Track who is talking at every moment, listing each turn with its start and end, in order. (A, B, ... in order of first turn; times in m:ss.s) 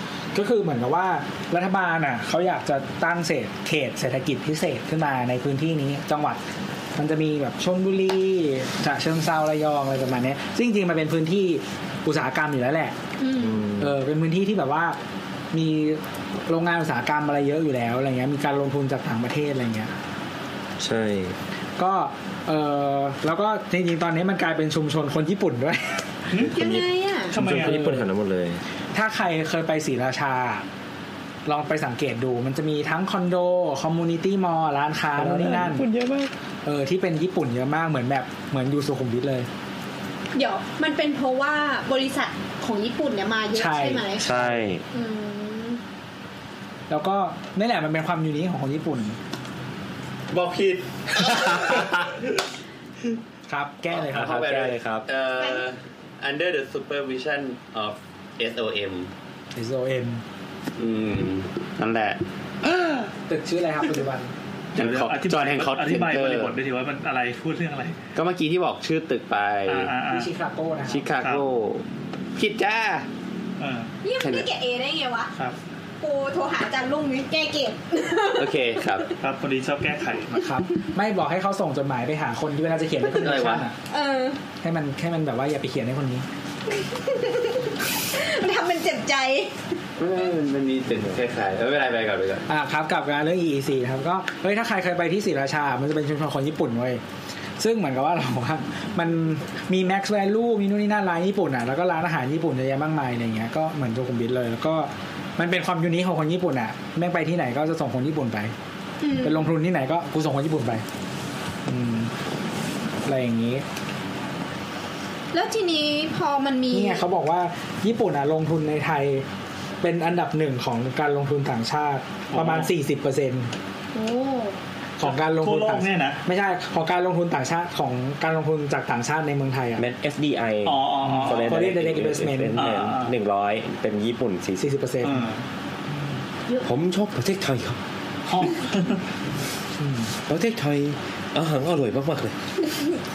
0:00.3-0:06.4 A
0:07.0-0:13.0 A
0:13.2-0:13.7 B
0:13.4-0:14.0 C
0:13.8-0:15.0 A
0:15.5-0:19.9 A
0:20.8-0:21.4 C
0:21.8-0:26.2 A
0:26.4-0:28.6 C
0:26.6-0:27.3 B
0:27.3-0:27.8 D
0:27.4-0:28.1 A
0:28.9-0:30.7 A
0:31.5-0:35.9 A
0:35.2-0:36.3 C
0:36.6-0:39.5 A
0:40.4-0:44.3 B
0:43.5-0:44.6 A
0:44.2-0:44.8 C
0:44.9-0:45.8 B
0:46.9-0:49.2 A
0:50.3-0:52.3 E
0:53.5-0:54.7 A
0:53.9-0:59.1 E
0:54.1-0:55.1 C
0:55.4-0:55.6 B
0:59.5-1:00.2 A
1:00.8-1:03.1 E
1:03.3-1:04.3 A
1:04.8-1:06.5 E
1:04.8-1:08.0 D
1:08.2-1:09.9 E
1:09.7-1:10.3 D
1:10.1-1:11.1 A
1:10.9-1:11.8 E
1:12.4-1:13.1 E
1:13.6-1:13.9 D
1:14.0-1:15.3 B
1:14.2-1:14.5 E
1:16.0-1:18.6 B
1:18.3-1:19.1 E
1:19.2-1:20.4 D
1:20.4-1:23.7 A
1:23.1-1:23.7 E
1:23.9-1:24.4 B
1:24.6-1:26.3 A
1:26.8-1:29.6 B
1:30.0-1:32.4 E
1:32.5-1:37.0 A
1:37.6-1:48.6 A
1:49.0-1:49.4 B
1:49.2-1:50.8 A
1:51.7-1:52.1 A
1:53.0-1:53.6 A
1:55.3-1:57.0 B
1:56.7-1:59.3 A
1:59.8-2:03.5 A
2:02.3-2:02.7 D
2:03.9-2:04.6 B
2:05.0-2:09.9 A
2:05.0-2:06.2 D
2:09.8-2:14.6 C
2:10.6-2:11.6 D
2:11.1-2:12.7 A
2:12.6-2:13.1 D
2:14.6-2:15.3 A
2:15.0-2:15.4 D
2:16.6-2:17.8 C
2:18.3-2:19.0 D
2:19.8-2:20.2 A
2:20.3-2:22.4 C